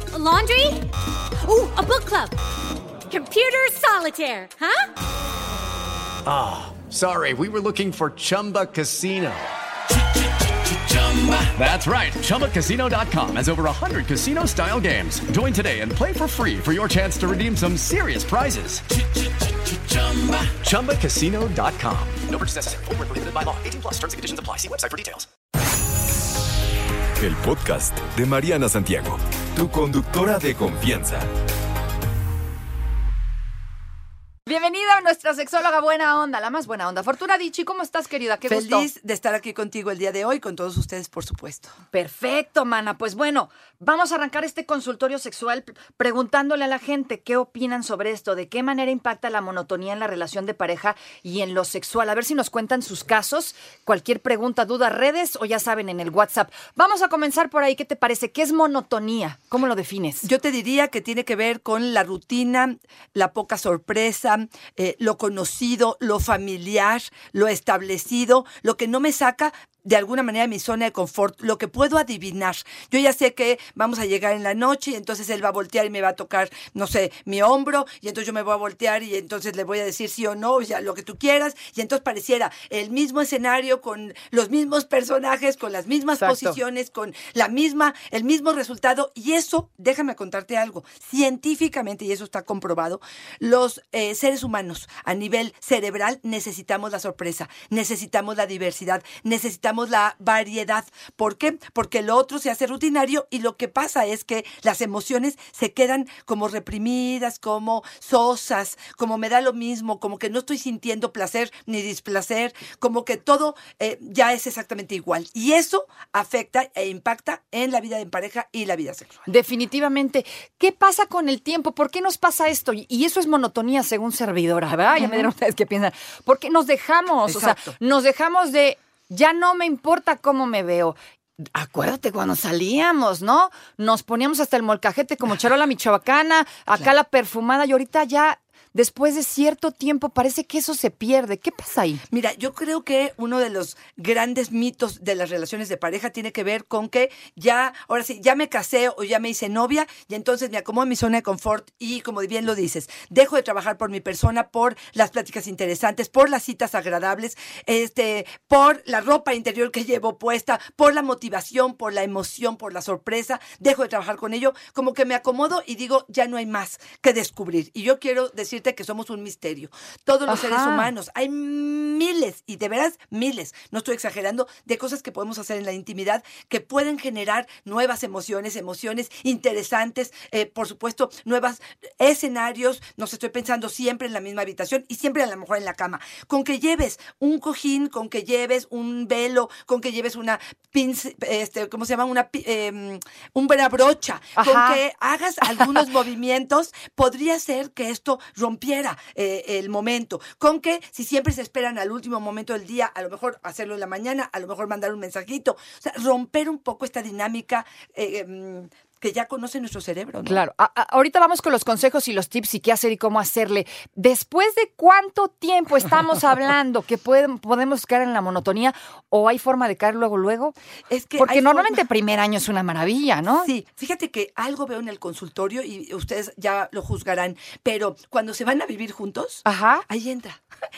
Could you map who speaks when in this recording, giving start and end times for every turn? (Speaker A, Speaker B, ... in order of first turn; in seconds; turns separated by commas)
Speaker A: 0.1-0.9, Speaker A: 1.4-2.3, Speaker A: 3.1-4.9, Speaker B: 6.2-9.5, Speaker B: 10.7-18.8, Speaker B: 19.6-25.3, Speaker C: 27.2-31.3, Speaker D: 34.5-38.9, Speaker E: 38.5-41.7, Speaker D: 41.9-60.3, Speaker E: 60.2-119.2, Speaker D: 86.2-86.6, Speaker D: 119.2-130.9, Speaker E: 124.9-125.3, Speaker E: 127.2-127.7, Speaker D: 131.5-142.0, Speaker E: 142.1-210.4, Speaker D: 170.3-170.9, Speaker D: 194.4-194.8, Speaker D: 210.2-220.5, Speaker E: 220.9-221.8, Speaker D: 221.2-223.5, Speaker E: 223.4-230.4, Speaker D: 229.4-229.8